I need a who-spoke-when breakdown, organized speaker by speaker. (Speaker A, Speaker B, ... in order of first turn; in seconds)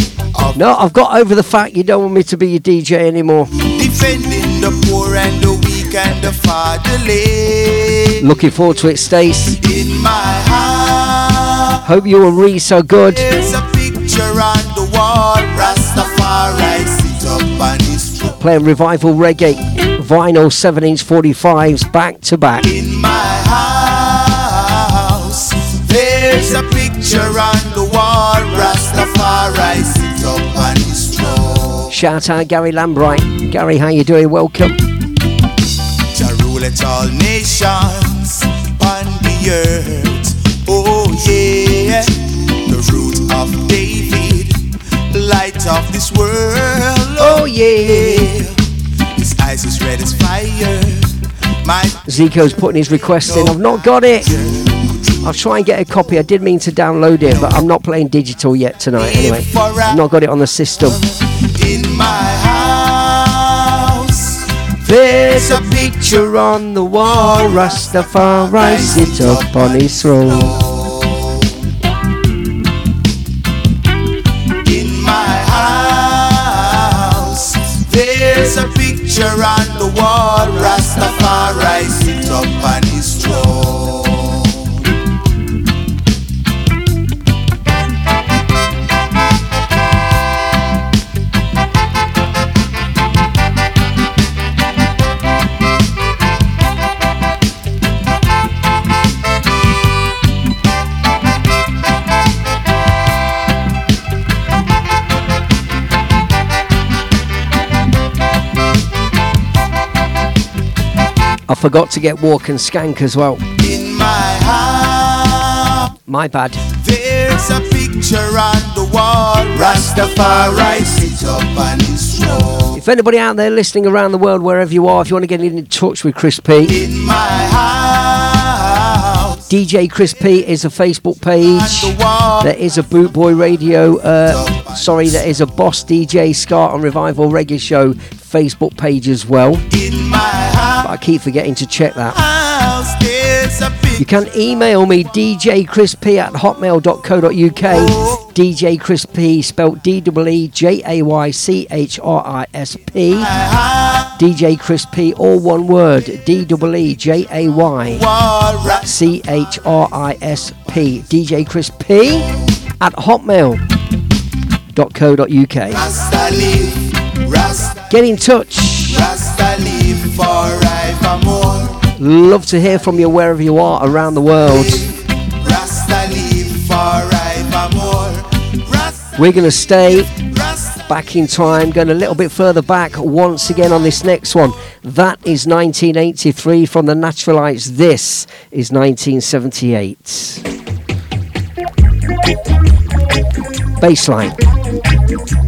Speaker A: 0.6-3.5, 8.2-9.6, 11.8-13.3, 18.4-22.7, 31.9-34.8, 47.2-48.3, 52.1-54.3, 55.2-61.0, 64.8-70.6, 111.5-113.4, 116.1-116.6, 122.7-126.8, 129.5-139.6, 140.8-142.2, 144.0-153.3, 154.2-158.0, 158.8-162.3, 162.8-163.6, 164.7-165.8, 167.9-169.0, 172.0-174.9, 179.2-180.2, 180.9-190.4, 193.8-194.4
Speaker B: 3.6-8.2, 9.6-11.8, 13.1-18.4, 22.6-31.9, 36.1-48.6, 49.1-51.1, 51.6-52.3, 53.2-53.5, 59.0-60.0, 61.5-64.4, 65.3-66.2, 67.0-71.4, 74.6-84.7, 113.6-115.8, 116.7-122.8, 126.7-129.4, 131.4-132.5, 134.4-135.2, 139.7-140.9, 142.1-144.1, 153.3-154.1, 157.9-158.8, 165.7-167.9, 168.9-171.8, 174.4-179.1, 180.1-180.8